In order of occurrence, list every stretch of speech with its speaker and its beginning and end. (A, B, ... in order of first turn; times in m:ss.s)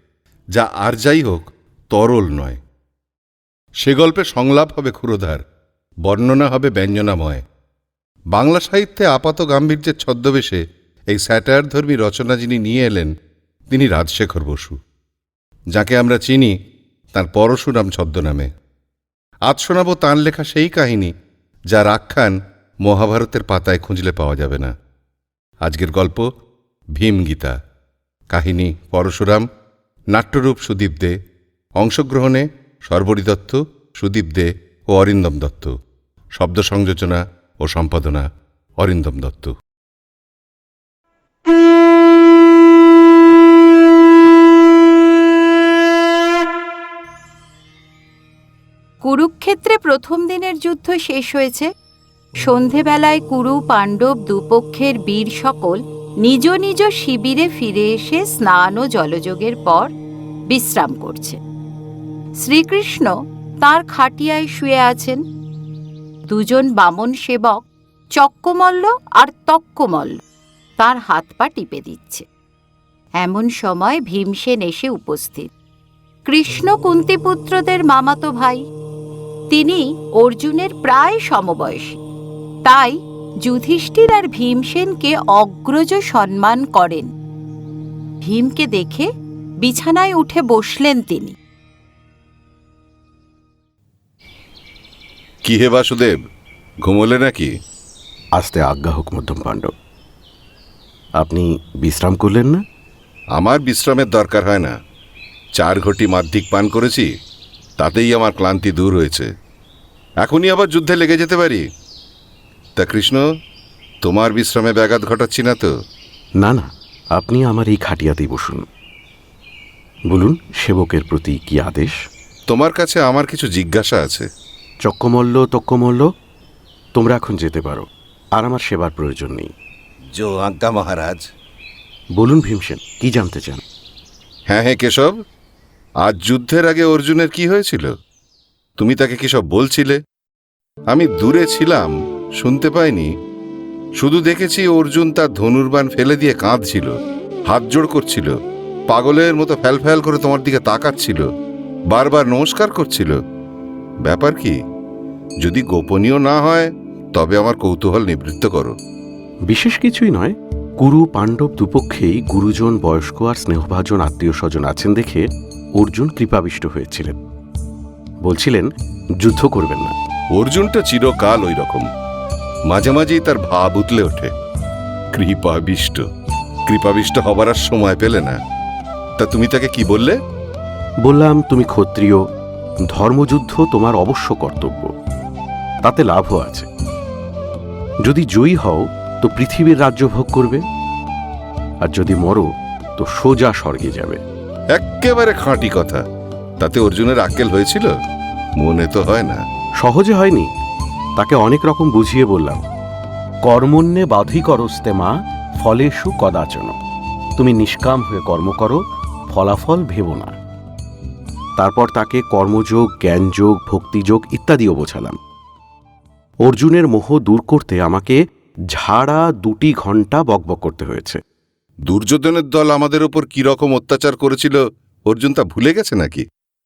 0:00.5-0:02.6 A
0:03.8-0:05.4 A
0:06.1-0:07.4 A
0:08.3-0:13.1 A
0:13.7-0:14.8 A
0:15.7-0:16.5 A
0:17.1-0:18.5 A
0:19.5-0:21.1 A
0:21.7-0:24.7 A
0:25.6-0:26.3 A
0:26.9-0:27.5 A
0:28.3-0:29.4 A
0:30.1-0:31.2 A
0:31.8-0:35.7 A
0:36.4-0:38.2 A
0:38.8-0:39.5 A
0:49.0-0:51.7 B
0:52.4-0:59.9 B
1:00.5-1:01.4 B
1:02.4-1:03.1 B
1:03.6-1:05.2 B
1:06.3-1:07.6 B
1:08.2-1:10.2 B
1:10.8-1:12.2 B
1:13.2-1:15.5 B
1:16.3-1:18.6 B
1:19.5-1:22.0 B
1:22.6-1:27.1 B
1:28.2-1:29.1 B
1:29.6-1:31.3 B
1:35.4-1:36.2 A
1:36.8-1:37.5 A
1:38.4-1:39.7 C
1:41.2-1:42.6 C
1:43.4-1:44.7 A
1:45.6-1:47.1 A
1:47.8-1:49.3 A
1:50.2-1:51.6 A
1:52.8-1:53.2 A
1:54.0-1:55.7 A
1:56.4-1:58.6 C
2:00.1-2:02.0 C
2:02.5-2:04.3 A
2:04.8-2:06.1 C
2:06.9-2:07.8 C
2:08.4-2:09.5 C
2:10.1-2:11.2 A
2:12.2-2:13.6 C
2:14.5-2:15.1 A
2:16.0-2:17.9 A
2:18.8-2:20.0 A
2:20.9-2:23.1 A
2:24.0-2:26.9 A
2:27.5-2:28.3 A
2:28.9-2:31.2 A
2:31.9-2:33.1 A
2:34.0-2:34.6 A
2:35.4-2:38.7 A
2:39.5-2:47.2 C
2:48.2-2:49.9 C
2:50.3-2:51.8 A
2:52.7-2:54.3 A
2:55.1-2:56.0 A
2:56.7-2:58.4 A
2:59.2-3:00.2 A
3:01.0-3:02.2 C
3:02.9-3:04.9 C
3:05.8-3:06.7 C
3:08.0-3:10.6 C
3:11.8-3:14.2 C
3:14.7-3:16.0 A
3:16.6-3:17.9 A
3:18.6-3:19.4 A
3:19.8-3:20.5 C
3:21.2-3:22.6 C
3:23.4-3:26.8 C
3:27.4-3:30.3 C
3:31.6-3:35.2 C
3:36.4-3:38.2 C
3:38.7-3:41.2 C
3:41.9-3:46.2 A